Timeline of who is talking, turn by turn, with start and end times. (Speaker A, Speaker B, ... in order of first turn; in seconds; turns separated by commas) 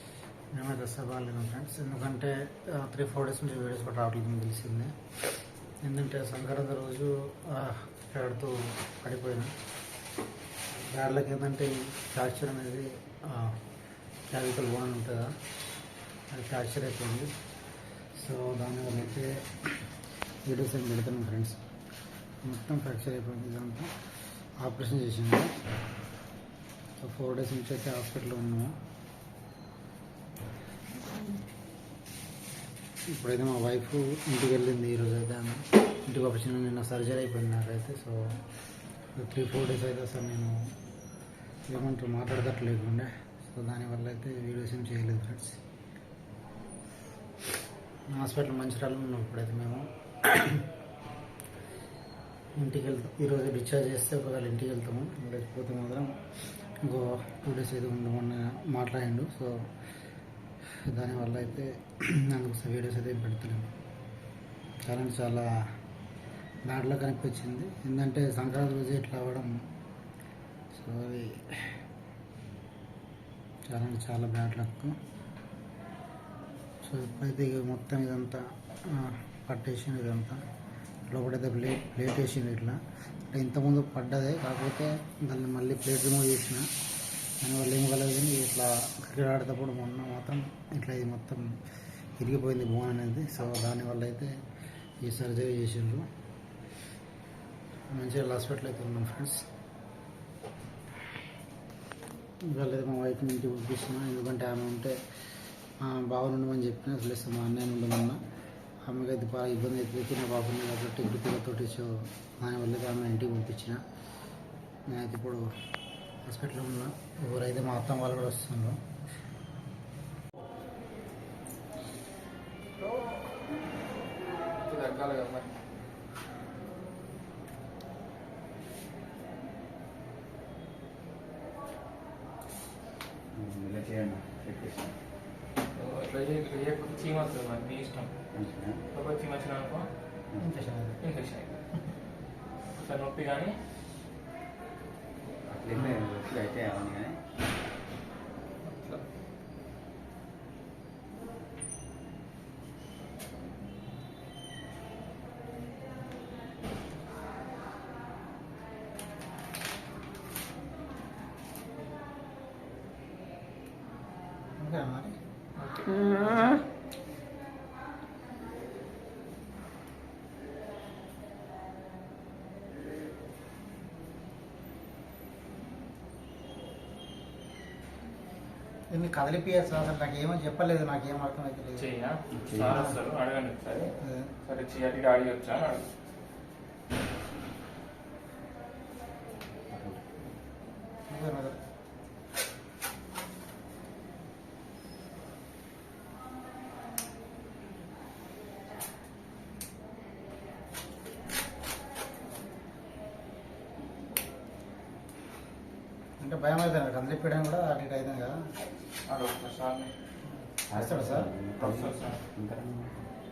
Speaker A: 0.5-5.0, Speaker A: 5.8-9.5, Speaker A: 10.7-13.6, Speaker A: 14.3-15.4, Speaker A: 16.3-17.3, Speaker A: 18.1-19.8, Speaker A: 20.4-21.6, Speaker A: 22.4-23.9, Speaker A: 24.6-25.5, Speaker A: 27.0-28.7, Speaker A: 33.1-38.3, Speaker A: 39.1-40.6, Speaker A: 41.7-45.6, Speaker A: 48.1-50.6, Speaker A: 52.6-59.6, Speaker A: 60.8-63.7, Speaker A: 64.8-65.7, Speaker A: 66.7-69.5, Speaker A: 70.7-71.7, Speaker A: 73.7-75.0, Speaker A: 76.8-80.4, Speaker A: 81.1-86.7, Speaker A: 87.4-91.5, Speaker A: 92.2-94.3, Speaker A: 95.0-96.1, Speaker A: 97.9-99.4, Speaker A: 102.4-105.0, Speaker A: 105.8-108.2, Speaker A: 108.8-113.8, Speaker A: 114.9-115.5, Speaker A: 116.2-118.8, Speaker B: 122.8-123.2, Speaker B: 124.5-125.5, Speaker C: 133.3-134.9, Speaker B: 135.7-138.2, Speaker C: 138.3-138.8, Speaker B: 138.9-139.9, Speaker A: 140.4-141.0, Speaker B: 141.0-141.6, Speaker B: 142.7-143.6, Speaker C: 145.5-147.2, Speaker B: 148.8-149.0, Speaker A: 164.6-165.2, Speaker B: 165.6-166.6, Speaker A: 178.9-181.8, Speaker B: 181.8-185.9, Speaker C: 182.3-182.8, Speaker A: 182.7-182.9, Speaker A: 184.0-184.3, Speaker C: 189.7-190.1, Speaker A: 191.1-191.6, Speaker A: 206.2-208.4, Speaker B: 209.1-209.9, Speaker C: 210.7-213.1, Speaker A: 210.7-211.3, Speaker B: 211.6-212.2